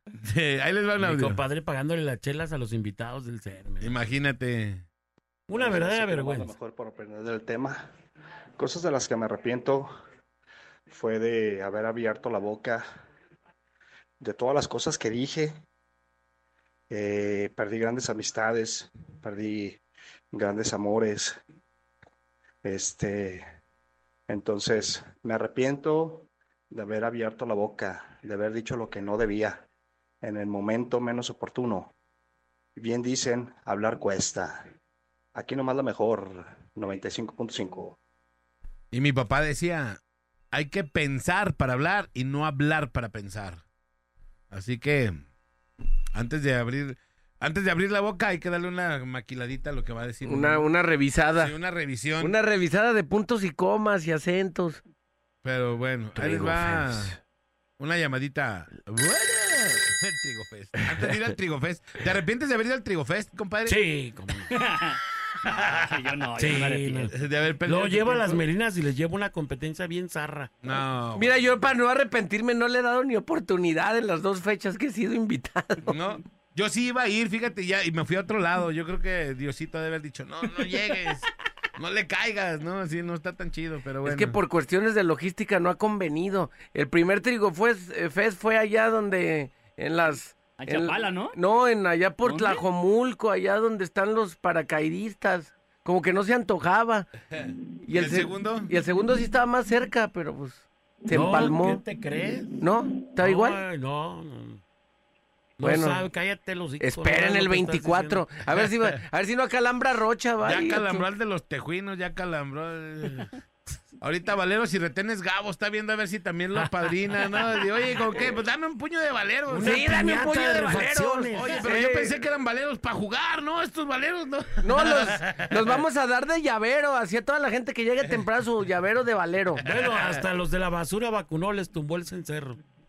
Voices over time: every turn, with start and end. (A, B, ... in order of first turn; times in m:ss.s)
0:00.2-0:01.4 A
0:01.0-0:04.0 B
0:03.8-0:04.8 A
0:05.5-0:06.6 B
0:05.5-0:07.9 C
0:08.6-0:09.9 C
0:10.9-0:12.9 C
0:14.2-0:15.6 C
0:16.9-0:19.8 C
0:20.3-0:21.4 C
0:22.6-0:23.4 C
0:24.3-0:29.6 C
0:30.2-0:31.9 C
0:32.8-0:34.7 C
0:35.4-0:38.0 C
0:38.9-0:40.0 A
0:40.5-0:43.6 A
0:44.5-0:45.2 A
0:46.1-0:50.7 A
0:50.2-0:51.6 D
0:51.4-0:52.3 A
0:52.2-0:54.8 D
0:55.4-0:57.1 A
0:56.2-0:57.2 D
0:57.8-1:03.8 A
1:03.6-1:04.6 B
1:04.5-1:07.1 E
1:05.4-1:05.8 A
1:06.4-1:10.5 B
1:07.1-1:08.4 A
1:10.6-1:11.5 A
1:11.2-1:15.9 D
1:15.9-1:24.4 A
1:24.0-1:37.1 D
1:30.6-1:31.4 E
1:37.4-1:38.7 A
1:37.8-1:41.8 D
1:41.1-1:42.6 B
1:42.6-1:43.6 D
1:43.2-1:44.6 B
1:45.6-1:48.3 B
1:45.6-1:46.1 D
1:46.8-1:51.1 D
1:50.4-1:53.3 A
1:54.0-2:00.0 A
1:56.6-1:57.2 B
1:59.5-2:01.6 B
1:59.6-2:02.2 D
2:01.4-2:05.8 A
2:04.6-2:09.6 D
2:09.6-2:12.6 B
2:09.7-2:10.2 A